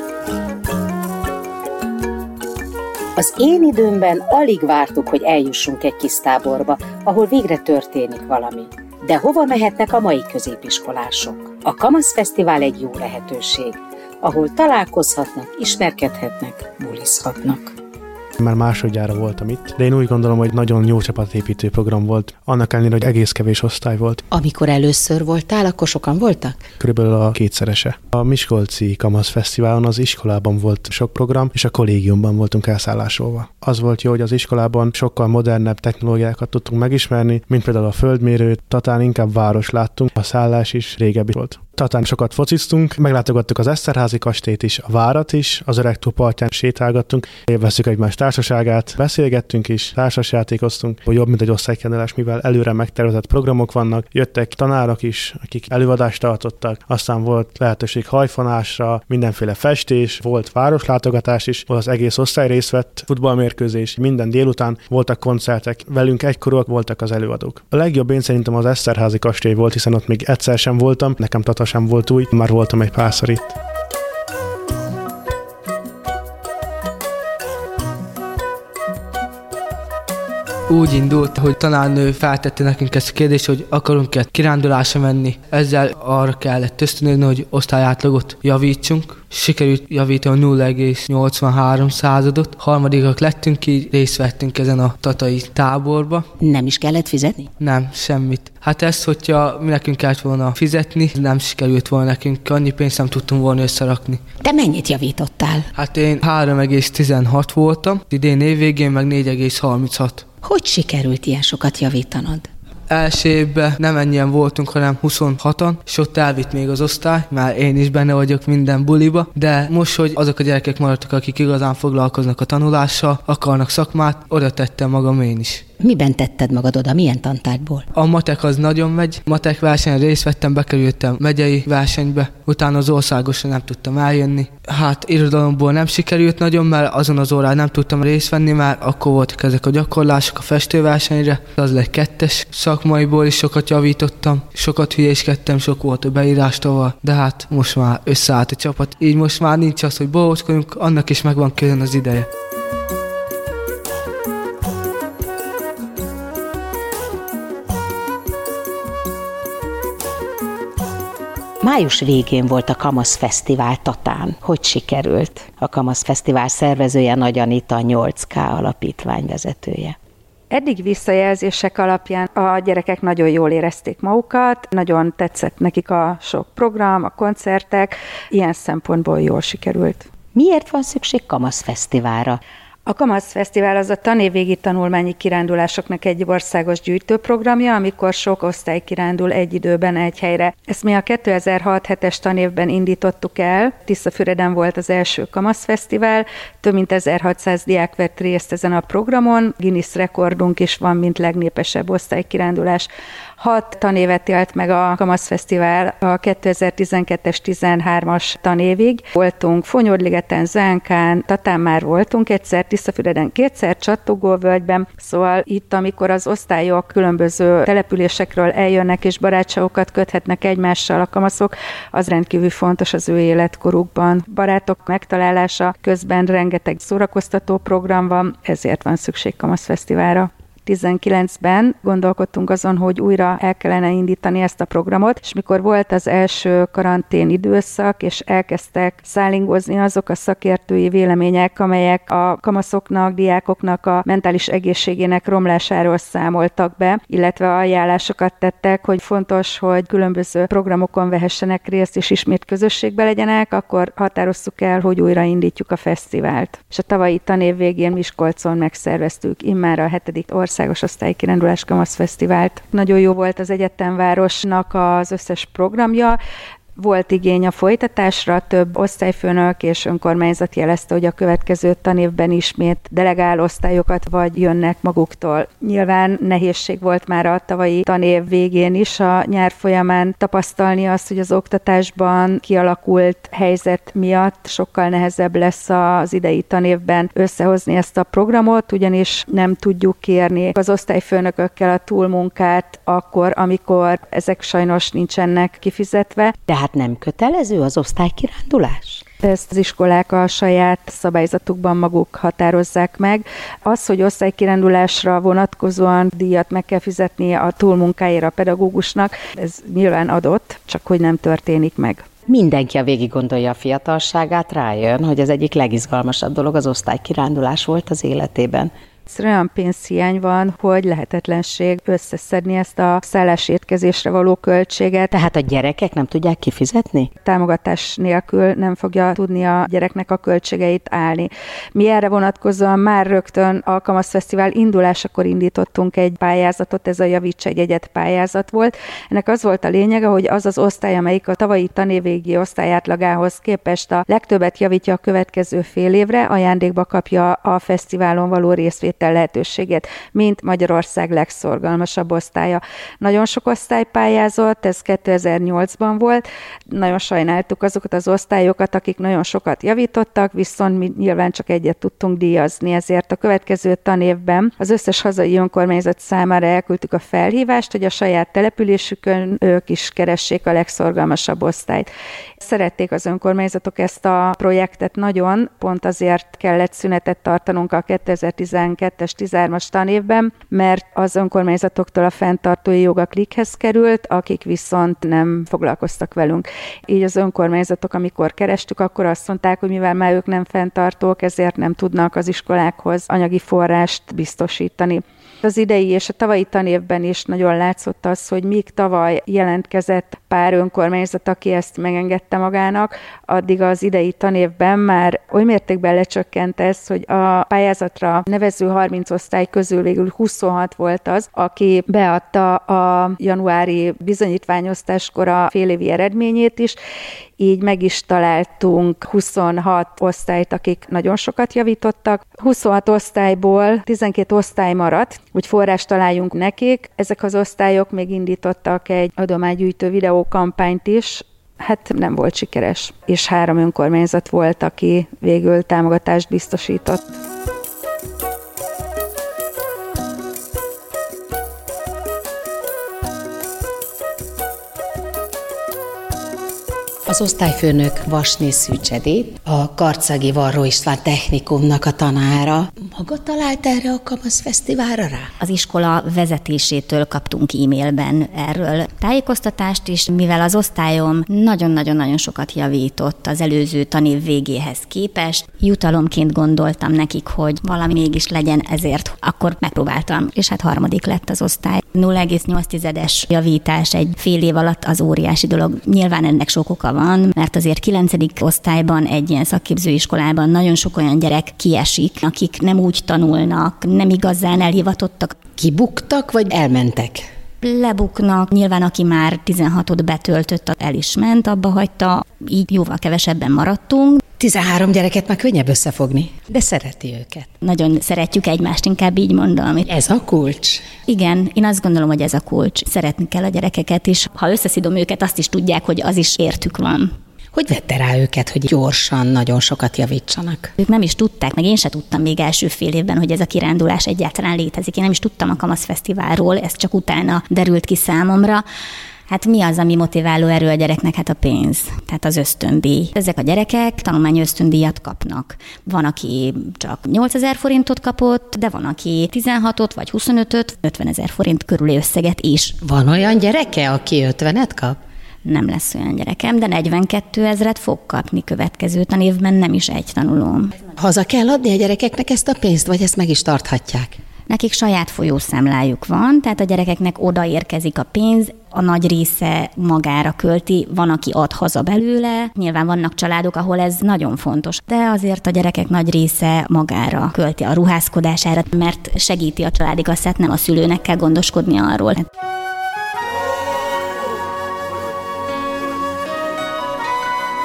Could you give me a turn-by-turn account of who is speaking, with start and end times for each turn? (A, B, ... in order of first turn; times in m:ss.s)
0:03.2-0:17.7 A
0:18.4-0:24.2 B
0:24.3-0:26.6 A
0:26.8-1:13.5 B
1:20.7-1:36.3 C
1:36.4-1:37.5 A
1:37.6-1:44.2 C
1:44.4-1:45.7 A
1:45.7-1:50.2 C
1:50.4-1:52.5 A
1:52.9-2:05.6 C
2:05.8-2:07.8 A
2:07.9-2:32.3 C
2:41.6-2:50.0 A
2:50.5-3:00.0 D
3:00.3-3:02.4 A
3:02.8-3:22.9 D
3:23.4-4:26.2 D
4:26.8-4:56.3 D
4:56.5-4:59.0 A
4:59.2-5:12.0 D
5:12.3-5:18.7 A
5:19.1-5:25.1 D
5:25.1-5:27.1 A
5:27.2-6:11.9 D
6:12.4-6:56.8 D
6:57.4-7:17.2 D
7:27.1-7:35.3 A
7:35.4-8:05.4 E
8:05.6-8:07.2 A
8:07.6-8:14.2 E
8:14.4-8:17.5 A
8:17.6-8:19.9 E
8:19.8-8:20.8 A
8:21.0-8:27.1 E
8:27.5-8:30.7 A
8:30.8-8:38.6 E
8:39.3-8:52.8 E
8:52.8-8:55.0 A
8:55.4-9:00.8 E
9:01.0-9:04.2 A
9:04.5-9:22.3 E